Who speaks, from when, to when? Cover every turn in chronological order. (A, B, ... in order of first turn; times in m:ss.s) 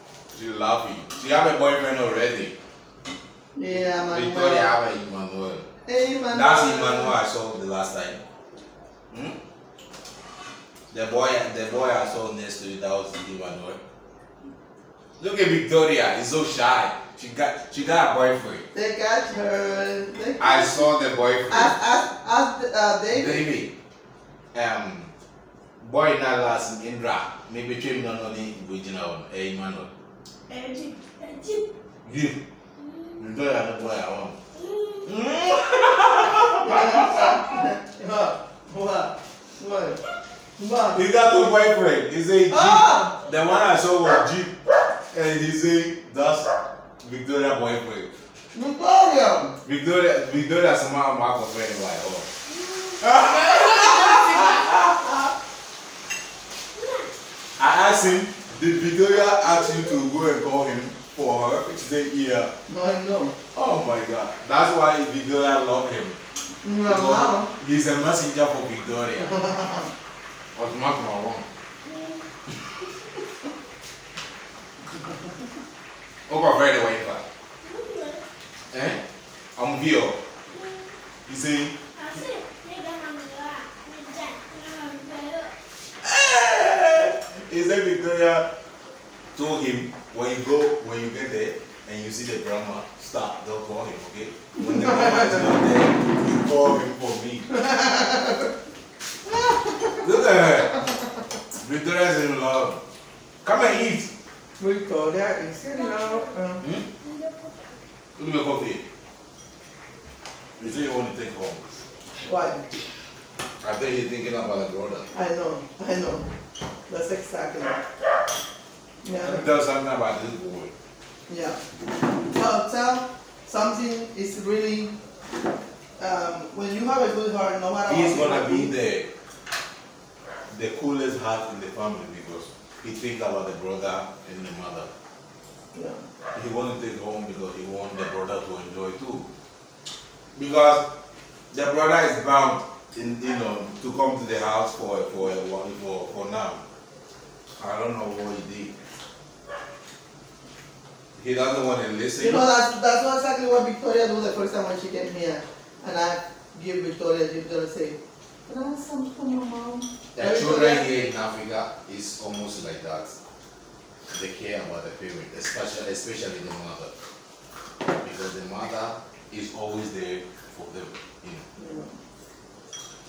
0:00.3-0:02.6 A
0:03.6-0:04.8 B
0:03.7-0:05.7 A
0:05.8-0:07.2 B
0:06.3-0:08.2 A
0:09.1-0:09.4 A
0:10.9-0:13.8 A
0:15.2-0:18.7 A
0:18.7-0:20.9 B
0:20.4-0:21.8 A
0:21.5-0:23.5 B
0:23.1-0:23.7 A
0:24.5-0:25.1 A
0:25.8-0:29.9 A
0:30.5-0:31.7 C
0:32.0-0:32.4 A
0:33.2-0:34.4 A
0:34.6-0:35.1 C
0:35.0-0:37.3 A
0:36.6-0:40.0 B
0:40.6-0:41.5 B
0:40.9-0:44.6 A
0:42.5-0:43.1 B
0:45.1-0:48.1 A
0:48.5-0:49.6 B
0:49.6-0:52.3 A
0:52.5-0:54.7 C
0:53.0-0:54.9 A
0:56.8-0:57.1 C
0:57.6-1:02.5 A
0:59.5-0:59.8 C
1:02.7-1:03.4 B
1:03.5-1:06.2 A
1:06.6-1:07.5 B
1:06.8-1:09.4 A
1:09.2-1:09.9 B
1:10.6-1:11.5 A
1:11.9-1:12.2 C
1:16.3-1:17.2 A
1:17.6-1:18.2 C
1:18.7-1:19.0 A
1:19.6-1:20.2 A
1:21.3-1:21.8 A
1:21.9-1:25.5 C
1:26.0-1:28.5 A
1:29.4-1:37.5 A
1:34.6-1:35.3 B
1:37.5-1:38.5 B
1:39.3-1:40.0 B
1:40.0-1:40.8 A
1:41.5-1:42.8 A
1:43.4-1:44.1 A
1:44.6-1:46.6 B
1:45.7-1:47.8 C
1:48.2-1:48.8 A
1:50.6-1:51.8 A
1:52.2-1:52.6 B
1:53.6-1:55.1 A
1:55.1-1:56.3 B
1:56.9-1:57.8 B
1:59.0-1:59.5 B
1:59.2-2:00.7 A
2:01.3-2:04.9 B
2:06.0-2:08.7 B
2:07.8-2:09.1 A
2:10.5-2:14.9 A
2:15.7-2:16.0 B
2:16.3-2:19.3 A
2:20.4-2:20.8 A
2:21.5-2:26.6 A
2:27.6-2:28.7 A
2:31.2-2:32.5 A
2:32.2-2:40.9 B
2:40.2-2:43.2 A
2:44.1-2:46.9 A
2:48.0-2:51.4 A
2:51.6-2:52.0 B